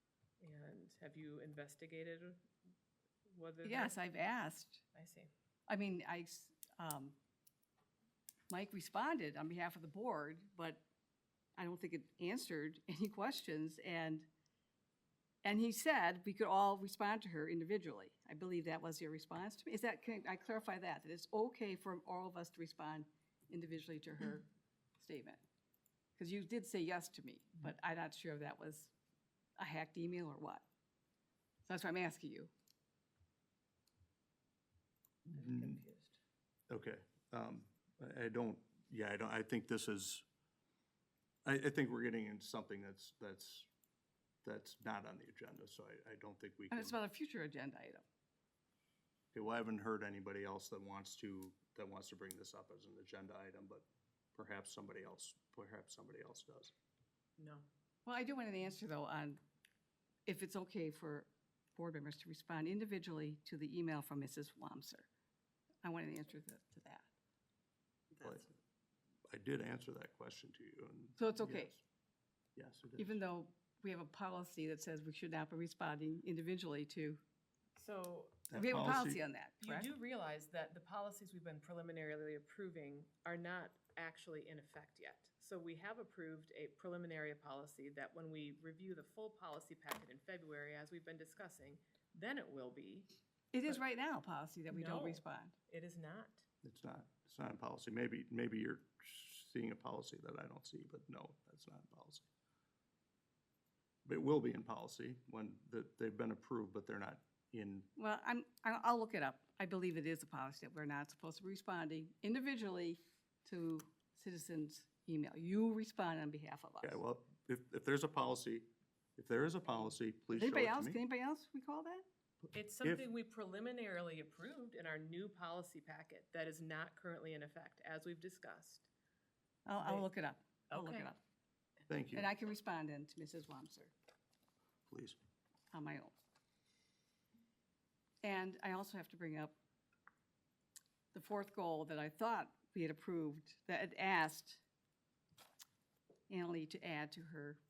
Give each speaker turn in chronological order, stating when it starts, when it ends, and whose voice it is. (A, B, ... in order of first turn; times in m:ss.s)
0:00.4-0:02.4 A
0:03.3-0:04.0 A
0:03.6-0:04.8 B
0:04.9-0:05.3 A
0:05.7-0:07.2 B
0:08.5-0:10.8 B
0:11.6-0:14.3 B
0:15.4-0:24.5 B
0:25.0-0:25.4 B
0:26.2-0:28.9 B
0:29.6-0:30.6 B
0:31.7-0:32.5 B
0:35.3-0:35.8 C
0:35.4-0:36.2 A
0:36.7-0:40.2 C
0:41.5-0:43.7 C
0:44.4-0:47.0 C
0:46.7-0:48.0 B
0:49.3-0:56.7 C
0:57.4-0:57.7 A
0:58.1-0:59.4 B
1:00.3-1:05.1 B
1:05.8-1:07.1 B
1:08.2-1:08.5 C
1:09.3-1:11.8 C
1:11.2-1:11.7 B
1:12.6-1:13.2 C
1:13.0-1:17.2 B
1:17.8-1:18.4 A
1:18.5-1:19.2 C
1:18.6-1:19.9 B
1:19.6-1:33.1 A
1:33.5-1:35.5 B
1:34.7-1:36.4 A
1:36.6-1:42.2 C
1:44.0-1:47.9 C
1:48.0-1:57.0 B
1:56.8-2:01.0 C
2:00.4-2:02.0 B
2:02.5-2:03.1 C
2:02.5-2:08.9 A
2:09.7-2:11.2 B
2:09.8-2:10.1 A
2:10.7-2:11.1 A
2:11.9-2:12.3 C
2:12.1-2:13.9 B
2:14.9-2:15.2 C
2:15.7-2:16.1 B
2:18.2-2:19.5 B
2:21.1-2:24.6 B
2:26.3-2:27.6 B